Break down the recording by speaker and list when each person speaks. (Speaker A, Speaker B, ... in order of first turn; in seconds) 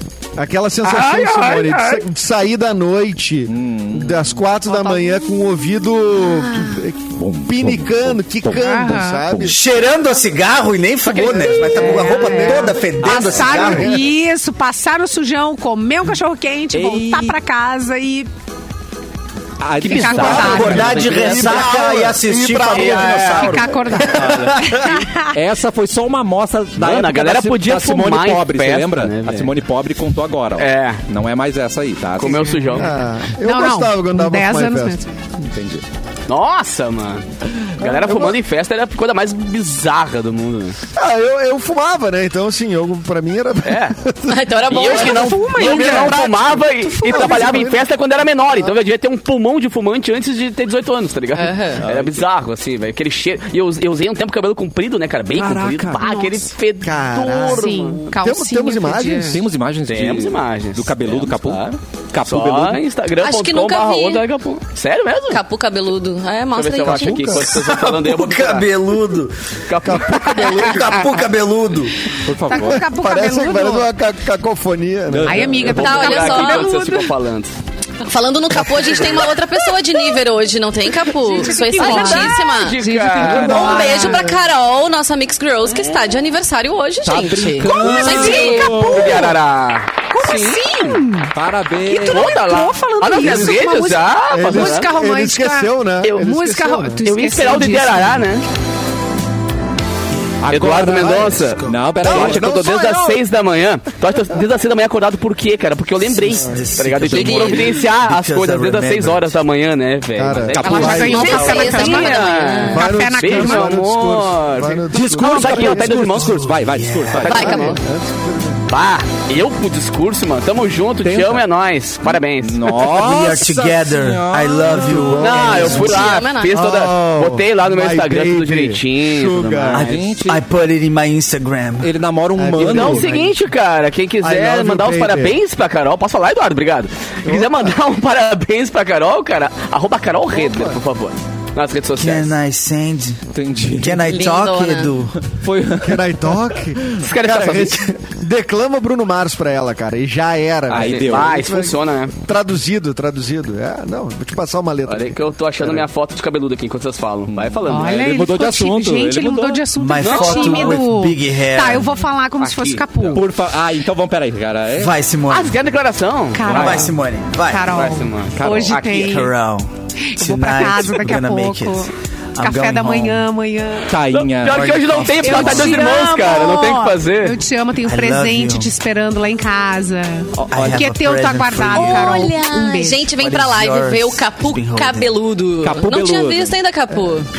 Speaker A: 0.4-9.6, 11.2-12.3, 20.3-25.1, 32.8-35.0, 37.8-38.4, 41.0-44.6, 45.6-47.9, 56.8-59.4, 66.9-67.6, 69.8-71.0, 72.5-75.5, 94.3-97.0, 102.0-103.2, 110.2-111.2, 112.7-116.0, 117.3-118.6, 124.8-129.8, 132.4-133.4, 134.2-135.3, 137.3-137.8, 140.3-140.8, 145.8-155.2
Speaker B: 0.9-1.8, 19.8-21.7, 22.6-23.5, 26.8-29.6, 30.6-31.0, 32.2-33.0, 36.3-37.3, 37.8-40.8, 43.6-44.0, 44.7-58.0, 59.9-65.4, 66.5-68.7, 69.7-71.1, 75.6-77.5, 81.4-84.1, 85.7-86.0, 87.8-90.9, 92.0-94.9, 97.0-98.5, 100.5-116.5, 117.2-117.8, 118.7-123.0, 125.2-130.1, 132.6-142.3, 147.0-147.9, 150.7-152.1, 154.9-158.1, 160.0-160.8, 162.4-163.2, 165.3-166.9, 167.7-168.9, 174.1-177.4
Speaker C: 3.5-4.3, 7.2-8.7, 9.3-9.6, 11.2-11.9, 13.0-13.8, 16.7-17.4, 19.6-21.7, 24.1-24.7, 25.3-32.9, 35.5-35.8, 51.8-52.3, 55.3-56.2, 59.2-62.8, 72.2-72.8, 75.1-75.9, 87.0-89.4, 91.3-92.4, 100.4-102.7, 110.5-111.3, 114.9-117.8, 121.0-121.5, 122.0-126.0, 129.7-130.4, 131.8-133.1, 143.3-144.2, 145.2-146.7, 150.7-151.4, 157.3-159.6, 163.1-165.0, 168.4-168.8, 173.9-175.4, 180.4-180.9, 185.6-186.6
Speaker D: 4.7-5.2, 8.5-9.3, 11.2-18.3, 19.8-21.3, 23.3-25.3, 33.4-35.1, 44.8-46.3, 46.8-47.7, 56.0-56.4, 57.5-59.4, 72.5-73.9, 75.3-77.1, 81.1-84.3, 87.6-89.3, 90.1-91.3, 91.9-98.2, 110.6-113.8, 157.7-163.2, 166.3-169.4, 170.1-174.0, 175.2-183.1
Speaker E: 9.4-13.9, 20.2-23.8, 67.6-69.3, 70.6-72.0, 83.4-84.2, 106.1-109.3, 111.2-111.7, 116.2-117.3, 122.8-126.0, 129.7-131.9, 141.9-143.2, 143.8-145.2, 159.8-161.9, 164.8-165.6, 166.5-167.8, 168.8-173.3, 174.5-175.9, 177.8-178.7, 180.5-182.3, 183.1-185.1
Speaker F: 44.3-45.4, 51.4-51.8, 63.2-64.2, 65.3-67.5, 75.8-76.7, 78.0-82.8, 83.4-88.8, 107.1-107.6, 111.1-112.8, 117.3-117.8, 125.8-126.6, 144.1-144.9, 181.7-187.3